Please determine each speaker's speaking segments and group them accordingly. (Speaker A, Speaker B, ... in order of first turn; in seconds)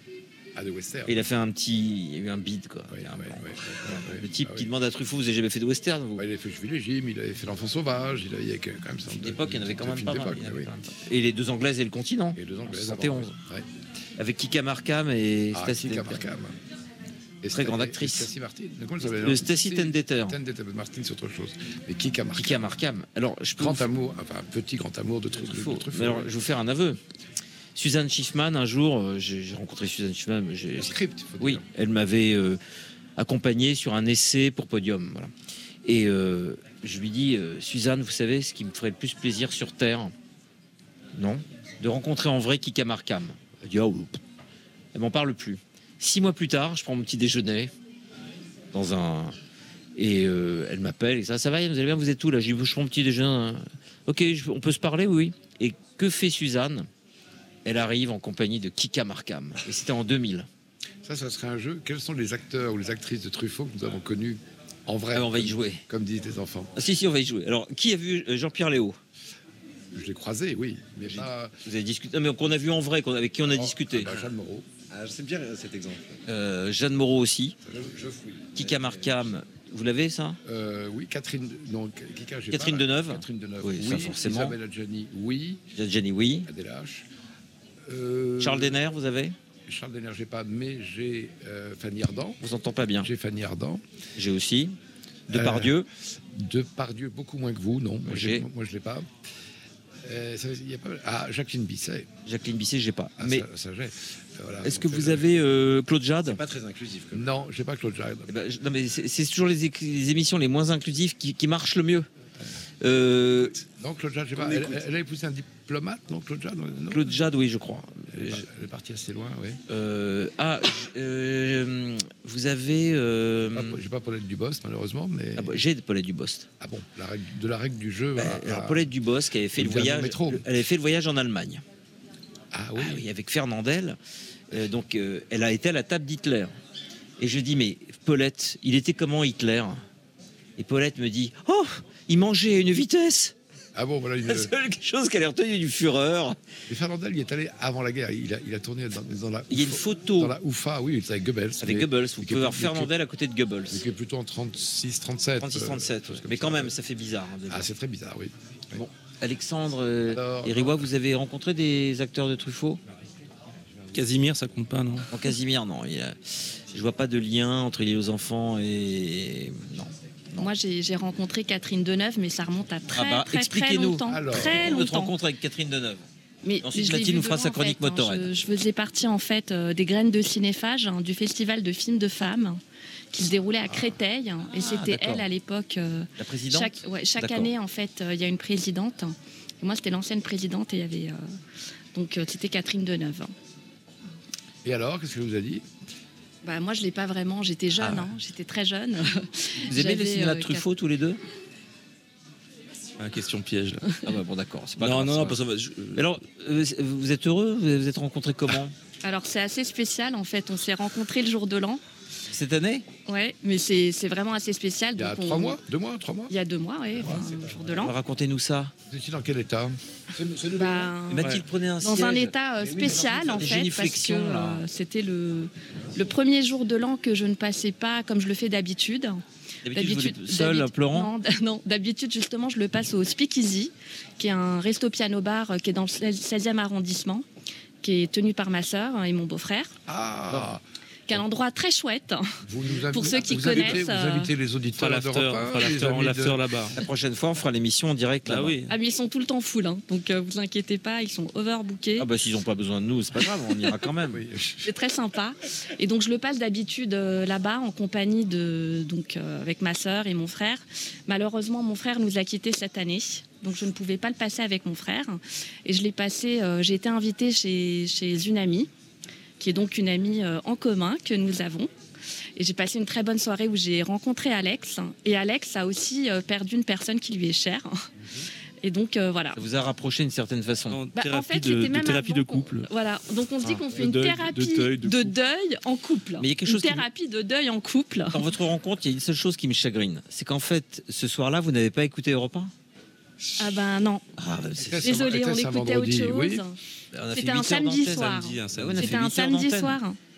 Speaker A: 0.5-1.2, 2.9-4.7, 6.2-10.7, 12.3-13.7, 15.5-16.5, 17.4-22.8, 23.6-26.3, 30.7-31.6, 61.0-66.7, 69.9-71.5, 73.5-74.7, 77.7-78.5, 80.4-85.6, 86.5-87.0, 87.8-88.8, 89.7-92.4, 93.0-93.8, 95.3-95.8, 96.3-99.1, 100.0-102.1, 103.2-105.3, 107.1-108.3, 113.6-117.2, 118.1-119.6, 123.5-125.6, 126.6-128.9, 129.5-130.4, 132.5-133.1, 143.7-144.5, 146.7-152.9, 153.7-156.7, 157.5-158.8, 160.1-160.9, 174.1-174.8, 194.6-195.7, 214.9-216.3, 216.9-217.6, 218.9-220.9, 239.9-241.2, 242.4-246.4, 254.1-254.7, 294.6-296.4
Speaker B: 1.1-6.2, 9.1-13.3, 14.2-16.2, 17.5-18.3, 19.0-20.4, 22.4-23.9, 25.4-27.0, 27.8-32.6, 33.2-35.3, 35.8-40.1, 41.1-44.2, 44.9-47.7, 48.7-49.4, 50.0-56.9, 57.6-60.5, 65.1-65.8, 66.8-69.0, 71.6-74.1, 76.2-77.5, 78.5-80.4, 82.5-84.5, 85.8-86.5, 88.4-89.3, 92.4-93.1, 94.2-94.8, 95.3-95.9, 98.0-98.5, 102.2-103.5, 104.6-106.4, 108.3-112.1, 112.8-113.5, 114.4-114.7, 116.9-118.5, 119.7-123.8, 125.3-126.5, 128.2-131.6, 132.8-134.0, 134.5-136.5, 137.2-139.8, 140.6-143.3, 144.2-146.4, 149.5-150.3, 151.6-153.8, 155.4-157.7, 158.7-162.8, 165.1-170.5, 172.9-176.1, 176.6-178.3, 184.5-185.2, 186.2-187.5, 197.7-198.1, 199.7-201.2, 204.0-205.4, 205.9-208.7, 212.3-212.9, 217.7-218.7, 221.1-222.3, 223.0-224.6, 229.6-231.1, 243.4-243.8, 246.7-248.6, 252.0-254.2, 279.3-280.8, 286.2-286.9, 288.1-292.5, 294.2-295.0, 296.9-299.8
Speaker C: 74.9-76.2, 77.9-79.2, 106.2-107.3, 222.6-223.4
Speaker D: 163.9-165.1, 203.0-203.9, 204.8-206.0, 244.8-246.8, 248.2-248.7, 280.7-282.7, 283.5-285.1, 297.8-299.0
Speaker E: 170.4-175.1, 176.4-182.6, 183.1-191.2, 191.9-193.3, 196.4-200.7, 209.0-211.8, 213.1-215.6, 216.3-217.9, 220.5-237.2, 237.8-239.7, 241.1-244.3, 248.7-252.1, 254.6-268.7, 269.4-271.7, 272.4-277.8, 278.6-279.4, 280.9-288.2, 293.4-294.0, 294.8-296.6, 297.1-300.0